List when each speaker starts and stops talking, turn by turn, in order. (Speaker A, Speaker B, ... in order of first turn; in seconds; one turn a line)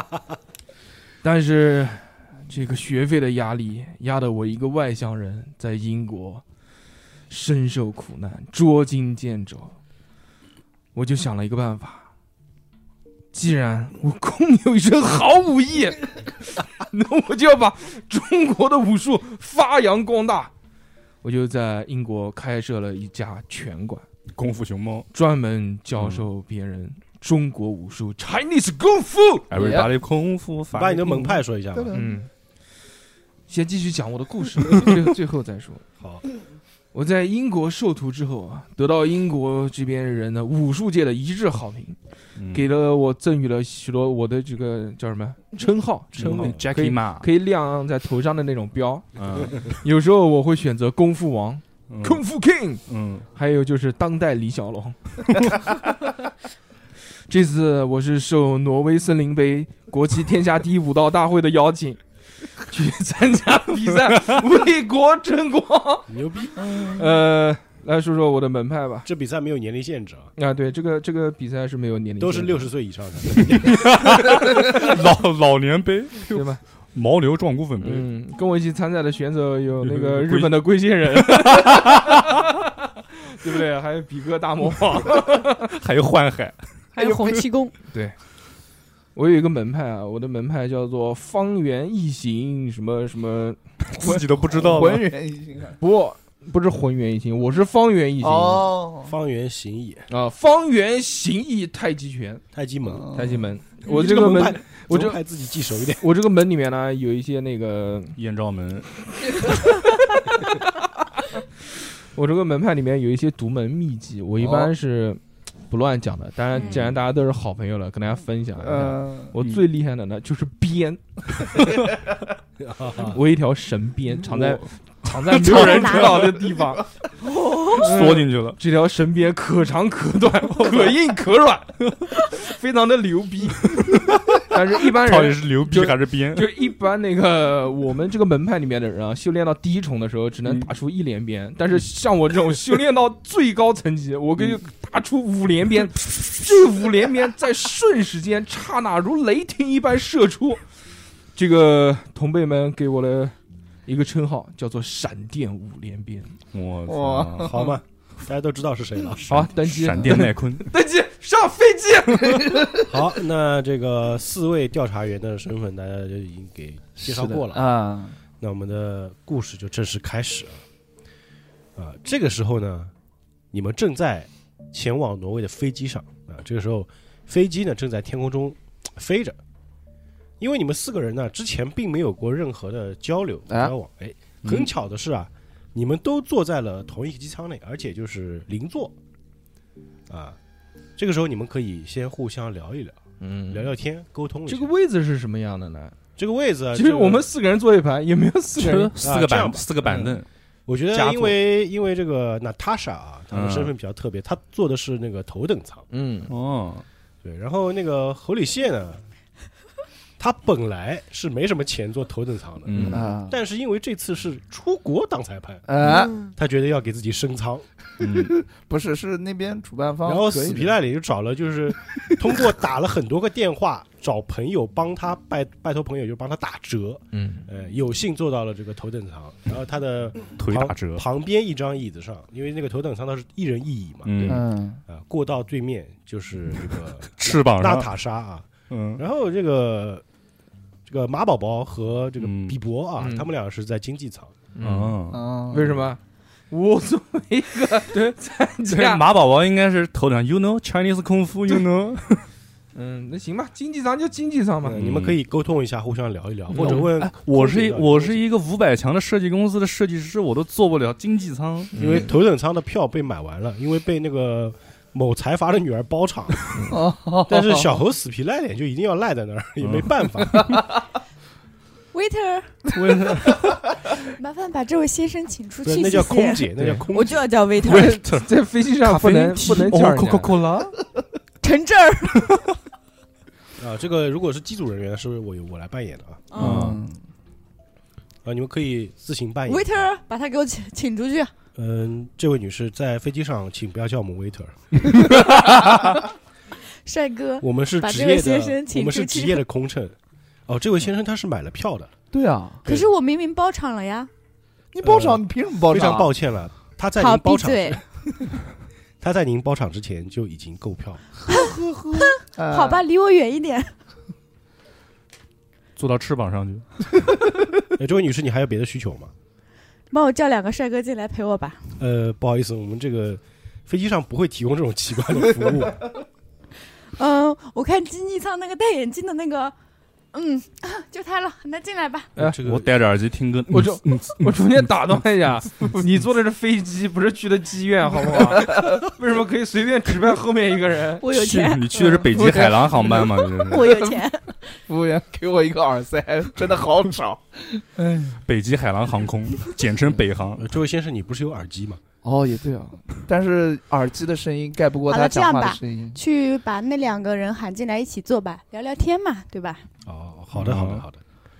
Speaker A: 1.2-6.4
Speaker A: 7.3-9.8
Speaker A: 10.9-12.1
Speaker A: 13.3-20.5
Speaker A: 21.2-24.0
Speaker B: 24.3-25.1
Speaker A: 25.1-29.5
Speaker B: 26.0-26.2
Speaker B: 29.5-31.4
Speaker C: 29.5-29.9
Speaker D: 30.7-31.9
Speaker C: 31.7-32.2
Speaker A: 31.9-32.3
Speaker A: 33.5-35.8
Speaker A: 36.9-42.0
Speaker B: 42.4-42.6
Speaker A: 42.5-52.8
Speaker B: 46.1-47.3
Speaker D: 46.2-46.6
Speaker B: 49.1-49.6
Speaker B: 51.9-52.2
Speaker B: 52.9-53.2
Speaker A: 53.3-55.6
Speaker A: 57.3-62.0
Speaker A: 62.6-66.1
Speaker D: 66.1-66.7
Speaker C: 66.6-67.0
Speaker A: 66.6-69.1
Speaker D: 69.0-70.3
Speaker A: 70.3-72.7
Speaker D: 72.2-74.0
Speaker B: 73.6-78.0
Speaker A: 76.3-76.6
Speaker A: 77.8-82.4
Speaker B: 79.8-80.6
Speaker B: 81.1-82.2
Speaker A: 83.2-85.7
Speaker B: 85.4-86.7
Speaker E: 86.9-87.7
Speaker A: 89.1-93.6
Speaker B: 93.9-95.1
Speaker C: 94.0-95.8
Speaker A: 95.8-98.7
Speaker C: 98.2-99.1
Speaker D: 99.0-100.1
Speaker A: 100.1-102.4
Speaker D: 102.5-103.1
Speaker C: 102.8-103.5
Speaker A: 103.1-105.2
Speaker D: 103.8-106.0
Speaker A: 106.0-108.2
Speaker B: 108.2-108.9
Speaker A: 112.1-121.6
Speaker C: 114.4-114.7
Speaker B: 116.6-116.9
Speaker C: 118.6-119.3
Speaker D: 122.6-123.2
Speaker A: 123.0-126.8
Speaker B: 124.2-126.3
Speaker E: 125.5-126.2
Speaker C: 126.5-126.8
Speaker E: 127.2-127.9
Speaker A: 127.7-150.6
Speaker B: 127.7-128.6
Speaker B: 133.8-136.5
Speaker A: 151.3-153.3
Speaker A: 153.8-156.3
Speaker B: 156.5-157.5
Speaker C: 156.9-157.6
Speaker D: 157.4-159.5
Speaker A: 159.3-162.7
Speaker B: 159.3-160.7
Speaker D: 162.8-167.6
Speaker C: 167.0-168.2
Speaker D: 168.4-170.6
Speaker D: 171.8-172.9
Speaker D: 173.5-179.4
Speaker D: 180.4-188.9
Speaker C: 183.5-183.7
Speaker B: 184.4-184.7
Speaker D: 190.1-190.4
Speaker D: 191.0-194.7
Speaker A: 193.2-193.7
Speaker A: 194.5-195.9
Speaker D: 196.2-197.3
Speaker A: 196.7-198.9
Speaker B: 198.6-200.2
Speaker D: 199.0-200.1
Speaker D: 200.7-205.8
Speaker B: 200.9-201.3
Speaker B: 203.3-203.7
Speaker A: 205.9-206.3
Speaker B: 206.3-206.8
Speaker D: 207.2-209.0
Speaker D: 210.2-217.7
Speaker B: 212.6-213.1
Speaker C: 212.9-213.4
Speaker C: 215.7-216.2
Speaker E: 215.8-216.3
Speaker B: 218.0-218.4
Speaker C: 218.0-220.8
Speaker D: 220.0-240.0
Speaker A: 227.1-227.5
Speaker B: 230.4-231.0
Speaker B: 234.0-234.5
Speaker C: 234.2-234.8
Speaker B: 237.2-237.9
Speaker B: 238.7-239.0
Speaker D: 240.8-244.3
Speaker B: 242.2-242.6
Speaker A: 243.0-243.3
Speaker A: 244.5-249.0
Speaker B: 244.6-245.2
Speaker C: 245.1-245.8
Speaker B: 248.7-252.3
Speaker A: 252.7-254.8
Speaker D: 254.6-258.2
Speaker B: 254.7-255.2
Speaker A: 256.5-256.9
Speaker B: 256.6-262.0
Speaker A: 261.7-262.1
Speaker D: 261.7-266.5
Speaker C: 266.7-267.7
Speaker D: 267.3-270.5
Speaker B: 269.6-270.4
Speaker E: 271.9-273.2
Speaker B: 272.7-273.6
Speaker E: 274.0-278.0
Speaker D: 275.6-277.3
Speaker A: 276.6-276.8
Speaker B: 277.6-280.8
Speaker A: 277.6-280.3
Speaker E: 281.4-282.3
Speaker D: 283.6-286.3
Speaker E: 286.3-286.6
Speaker C: 286.4-287.0
Speaker B: 286.4-286.8
Speaker D: 288.2-289.9
Speaker E: 289.5-291.3
Speaker D: 291.6-295.0
Speaker E: 296.8-299.4
Speaker D: 297.4-299.9
Speaker D: 300.5-301.9
Speaker C: 302.1-302.7
Speaker E: 302.6-304.1
Speaker C: 304.7-306.1
Speaker D: 304.8-307.8
Speaker E: 307.0-307.8
Speaker D: 309.0-311.0
Speaker C: 311.2-312.8
Speaker E: 311.3-313.7
Speaker B: 315.8-316.7
Speaker D: 317.8-319.1
Speaker E: 319.9-321.6
Speaker D: 321.8-325.9
Speaker E: 327.0-329.5
Speaker E: 330.1-332.1
Speaker D: 332.2-332.7
Speaker B: 332.2-334.7
Speaker A: 333.5-341.1
Speaker C: 338.4-338.8
Speaker E: 341.0-342.1
Speaker B: 341.1-343.7
Speaker C: 342.0-344.0
Speaker E: 343.4-344.6
Speaker C: 344.7-348.2
Speaker B: 348.1-350.5
Speaker D: 350.4-351.8
Speaker C: 352.0-356.0
Speaker E: 354.9-359.7
Speaker D: 359.8-361.0
Speaker B: 360.4-360.8